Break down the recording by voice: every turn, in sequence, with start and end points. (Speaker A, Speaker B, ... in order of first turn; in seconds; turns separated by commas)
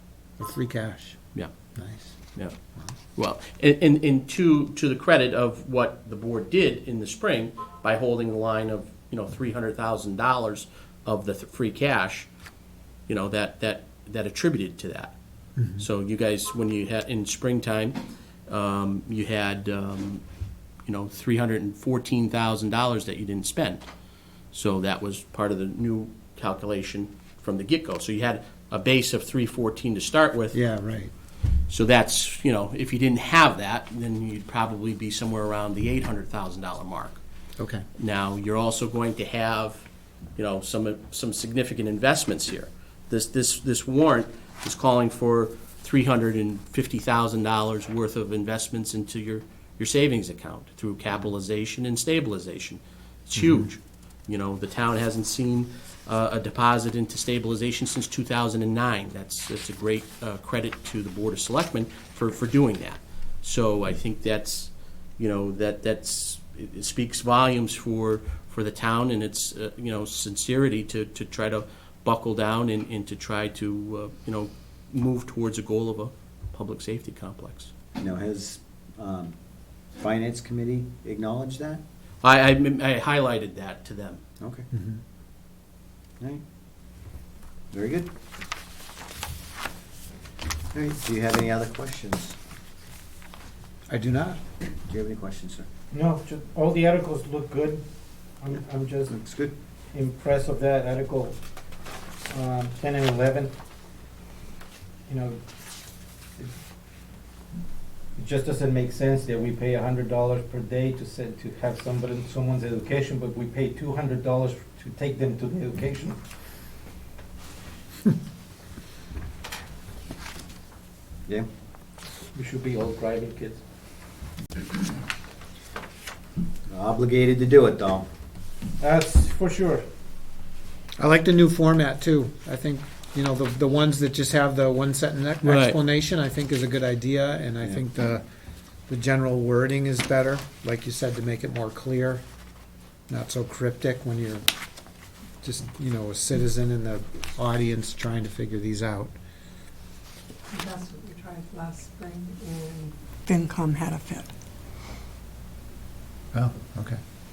Speaker A: 0.4-1.2, Speaker A: 1.8-2.1, Speaker B: 3.2-12.3, Speaker B: 13.1-15.1, Speaker A: 15.6-15.8, Speaker B: 15.8-20.2, Speaker B: 20.9-23.9, Speaker B: 24.5-30.6, Speaker A: 30.5-31.1, Speaker B: 31.7-37.2, Speaker A: 37.6-37.9, Speaker B: 38.0-39.9, Speaker B: 40.4-77.7, Speaker A: 53.4-53.7, Speaker C: 78.0-79.3, Speaker C: 80.0-81.8, Speaker B: 82.2-84.2, Speaker C: 84.4-84.7, Speaker A: 84.7-85.0, Speaker C: 87.7-88.1, Speaker C: 90.7-92.4, Speaker A: 93.9-94.4, Speaker C: 94.9-95.7, Speaker D: 95.9-97.8, Speaker D: 98.4-99.1, Speaker C: 99.1-99.5, Speaker D: 99.9-101.4, Speaker D: 102.3-103.5, Speaker D: 105.1-105.4, Speaker D: 108.2-116.2, Speaker D: 122.3-123.6, Speaker C: 126.7-128.1, Speaker D: 128.8-129.9, Speaker A: 131.0-138.2, Speaker B: 135.4-135.8, Speaker A: 138.9-142.2, Speaker A: 143.1-144.5, Speaker A: 145.4-149.2, Speaker E: 150.5-154.3, Speaker A: 156.3-157.0